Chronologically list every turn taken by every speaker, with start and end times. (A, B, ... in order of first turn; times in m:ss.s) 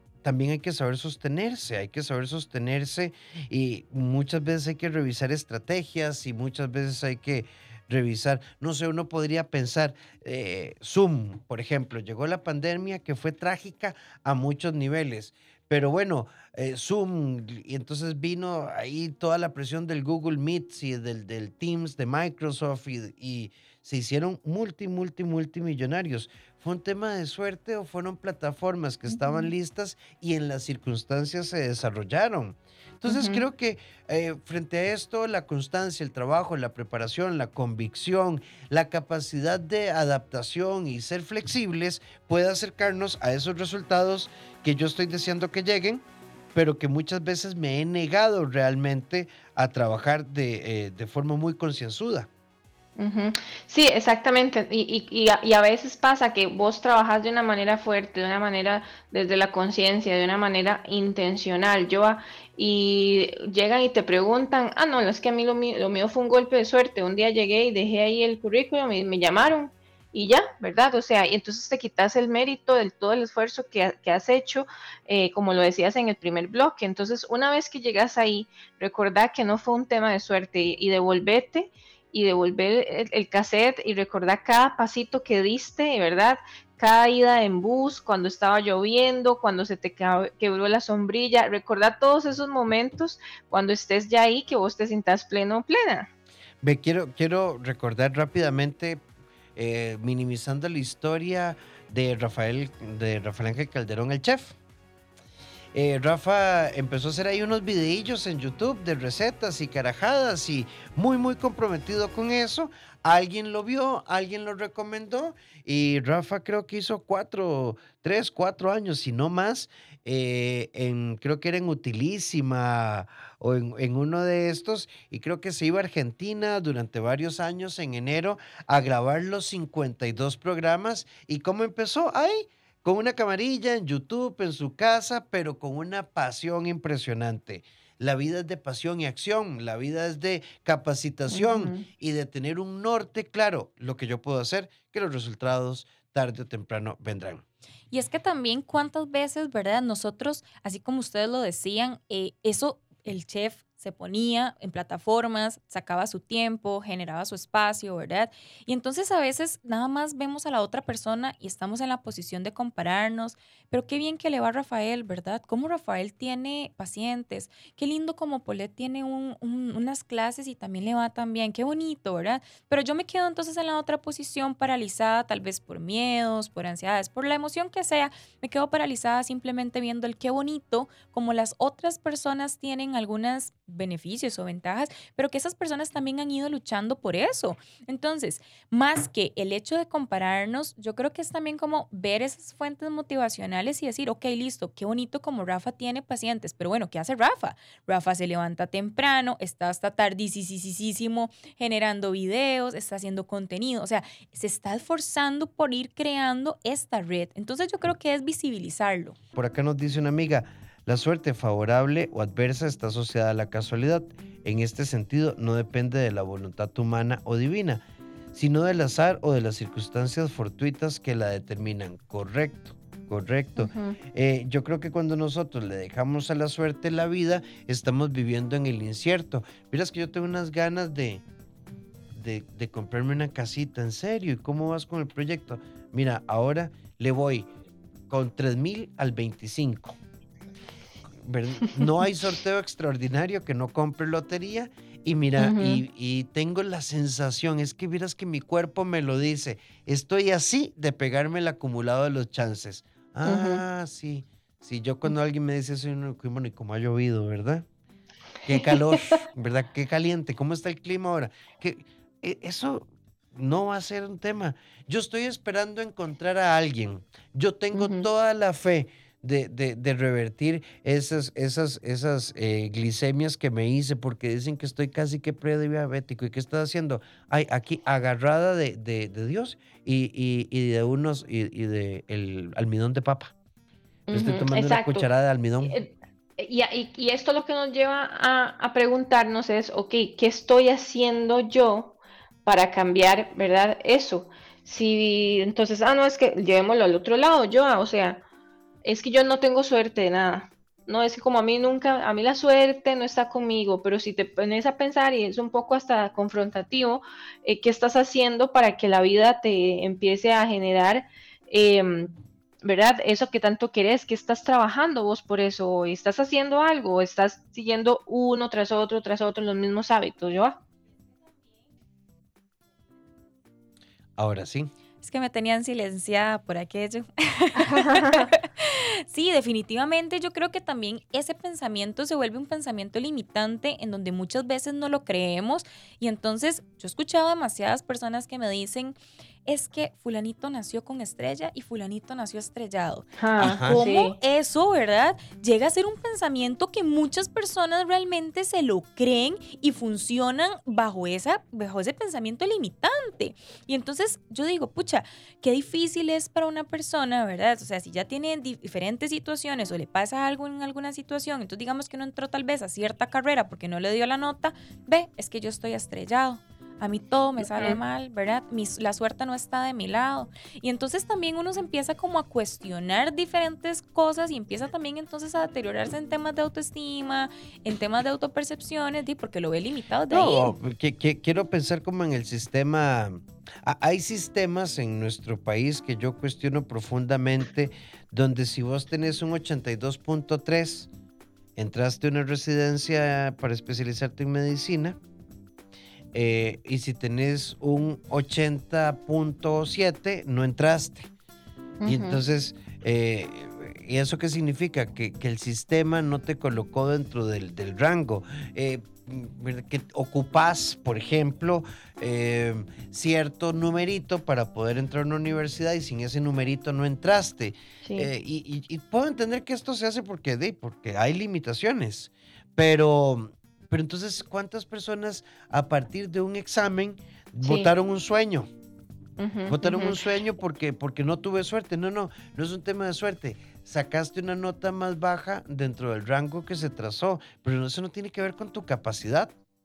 0:00.2-0:46.0 A
0:29.1-0:29.5 B
0:33.1-0:33.4 B
0:46.6-0:52.3 A
0:53.0-1:36.1 B
1:36.6-1:39.0 A
1:39.6-1:44.6 A
1:45.7-2:27.4 A
2:21.3-2:21.9 B
2:27.9-3:29.2 C
3:29.4-3:51.2 A
3:43.6-3:44.0 B
3:52.2-3:57.5 A
3:58.1-4:00.0 A
4:01.2-4:17.7 A
4:05.4-4:05.8 B
4:13.2-4:13.6 B
4:18.4-4:43.3 A
4:18.5-4:19.2 B
4:27.7-4:28.1 B
4:44.1-4:45.1 B
4:44.1-4:45.8 A
4:45.6-4:58.2 B
4:58.8-5:20.6 B
5:24.2-5:24.7 A
5:25.0-6:20.5 C
5:27.7-5:28.3 B
5:43.2-5:44.2 B
5:43.4-5:43.8 A
6:07.5-6:07.8 B
6:20.1-6:30.9 A
6:31.6-6:35.0 A
6:36.1-6:41.1 A
6:41.8-6:42.2 B
6:41.8-7:08.5 A
6:57.8-6:58.1 B
7:07.4-7:07.7 B
7:09.2-7:10.0 B
7:09.5-7:19.3 A